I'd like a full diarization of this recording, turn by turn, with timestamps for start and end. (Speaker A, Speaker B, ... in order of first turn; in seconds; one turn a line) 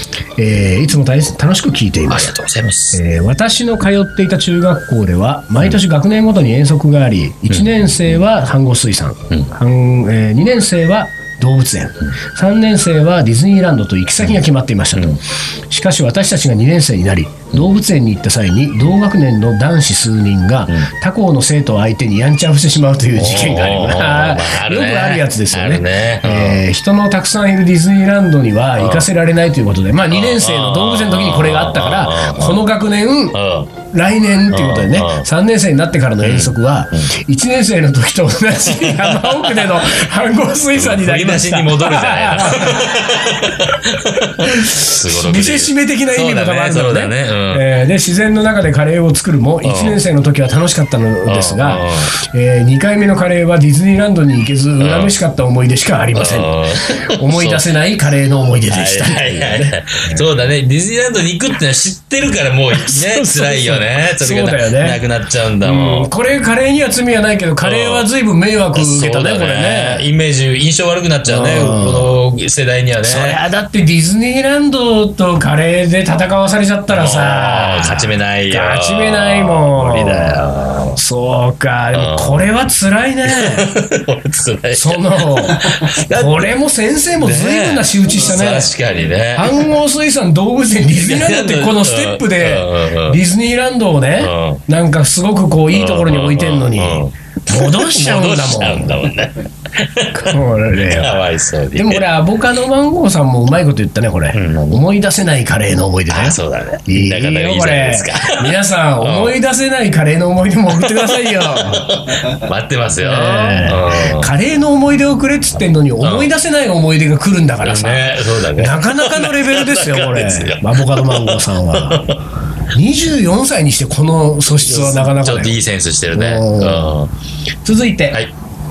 Speaker A: 0.4-2.3
Speaker B: 2.1-3.0
Speaker A: 2.9-43.0
Speaker B: 7.5-8.2
Speaker B: 14.9-15.2
Speaker B: 23.1-26.6
Speaker B: 28.8-29.1
Speaker B: 30.1-32.6
Speaker B: 33.3-33.7
Speaker B: 34.5-35.3
Speaker B: 36.2-37.1
Speaker B: 38.6-39.9
Speaker B: 40.7-47.7
Speaker A: 44.4-60.2
Speaker B: 49.6-50.0
Speaker B: 51.2-52.1
Speaker B: 54.8-55.1
Speaker B: 56.1-57.6
Speaker B: 58.7-66.1
Speaker A: 62.7-65.0
Speaker A: 65.6-70.0
Speaker B: 67.6-68.1
Speaker B: 68.7-73.4
Speaker A: 71.2-72.1
Speaker A: 73.0-80.4
Speaker B: 76.9-81.0
Speaker A: 81.0-83.7
Speaker B: 81.9-82.4
Speaker B: 83.2-86.5
Speaker A: 84.7-88.7
Speaker B: 87.2-89.8
Speaker A: 89.3-99.0
Speaker B: 91.0-93.2
Speaker B: 94.2-94.6
Speaker B: 95.7-102.0
Speaker A: 100.1-101.2
Speaker A: 101.7-111.9
Speaker B: 104.3-104.8
Speaker B: 106.1-109.4
Speaker B: 110.7-114.3
Speaker A: 113.0-122.1
Speaker B: 116.0-116.3
Speaker B: 117.6-122.2
Speaker A: 122.7-125.6
Speaker B: 124.6-127.1
Speaker A: 126.1-126.9
Speaker A: 127.6-128.2